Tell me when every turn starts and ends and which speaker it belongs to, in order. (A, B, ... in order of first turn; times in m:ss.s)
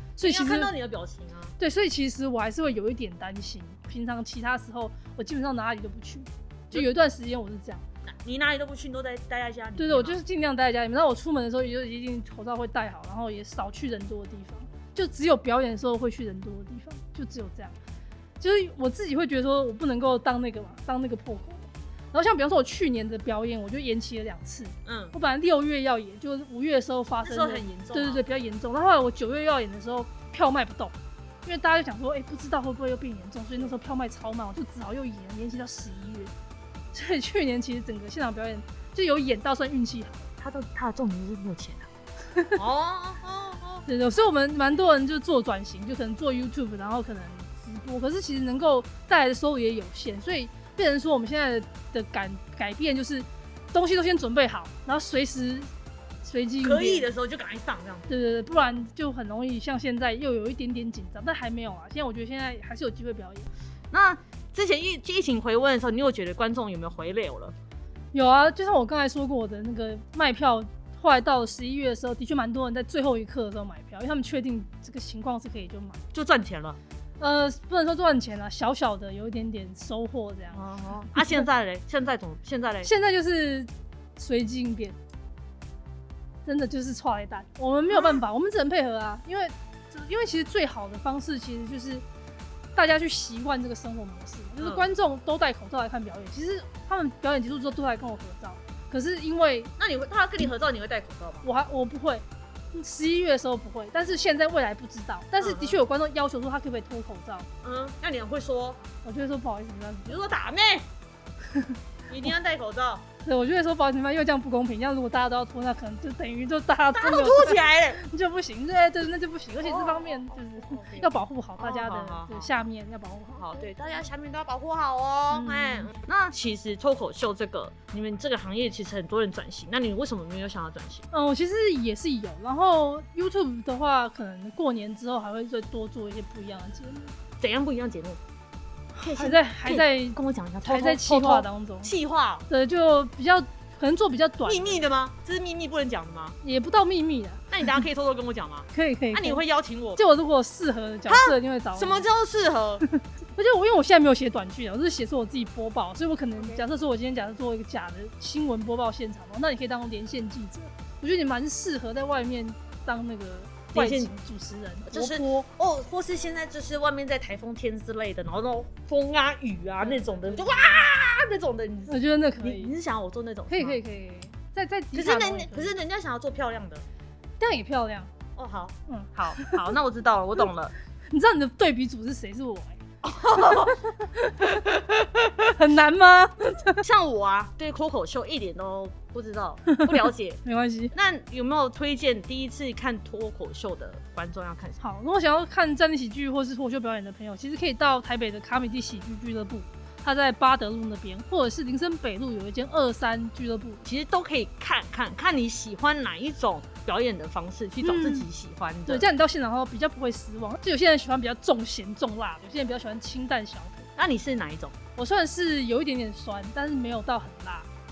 0:00.2-0:00.7 A
0:00.2-0:01.5 B
0:01.6-0:07.8 A
0:08.0-0:10.2 B
0:09.8-0:17.7 A
0:18.4-0:30.9 A
0:24.8-0:25.1 B
0:27.2-0:28.2 B
0:31.4-0:36.3 A
0:36.9-0:40.3 A
0:40.4-0:41.9 B
0:42.5-0:43.8 B
0:43.9-0:55.7 A
0:56.2-0:57.1 A
0:56.6-0:58.1 B
0:58.1-1:03.5 A
1:03.9-1:07.5 B
1:08.1-1:16.0 A
1:16.1-1:16.8 B
1:17.2-1:21.4 A
1:20.5-1:22.9 B
1:22.8-1:25.0 A
1:26.4-1:32.0 A
1:27.9-1:28.2 B
1:32.7-1:39.7 A
1:34.6-1:34.8 B
1:39.8-1:41.5 B
1:41.4-1:47.5 A
1:45.4-1:45.8 B
1:47.6-1:48.8 B
1:49.0-1:50.2 A
1:50.1-1:50.9 B
1:52.1-1:53.0 B
1:53.2-2:03.7 A
1:57.0-1:58.0 B
1:59.6-2:02.5 B
2:03.4-2:11.0 B
2:05.3-2:05.9 A
2:11.1-2:17.1 A
2:17.4-2:18.2 B
2:19.0-2:21.9 A
2:19.0-2:22.4 B
2:22.5-2:24.9 A
2:24.4-2:26.4 B
2:26.4-2:27.5 A
2:27.5-2:30.0 B
2:28.7-2:29.4 A
2:30.0-2:32.1 A
2:31.1-2:32.8 B
2:32.8-2:45.5 A
2:43.7-2:44.1 B
2:44.8-2:53.8 B
2:49.8-2:50.4 A
2:51.9-2:52.7 A
2:53.5-2:55.8 A
2:54.9-2:56.8 B
2:57.4-2:58.1 A
2:58.4-3:00.7 B
2:58.9-2:59.6 A
3:01.1-3:02.8 A
3:03.0-3:03.8 B
3:03.5-3:04.6 A
3:04.8-3:05.3 B
3:05.5-3:06.8 A
3:06.8-3:10.4 B
3:09.7-3:10.9 A
3:10.9-3:14.8 B
3:14.8-3:23.8 A
3:23.8-3:29.1 B
3:27.8-3:28.3 A
3:28.8-3:33.9 A
3:34.0-3:34.7 B
3:35.0-3:37.7 A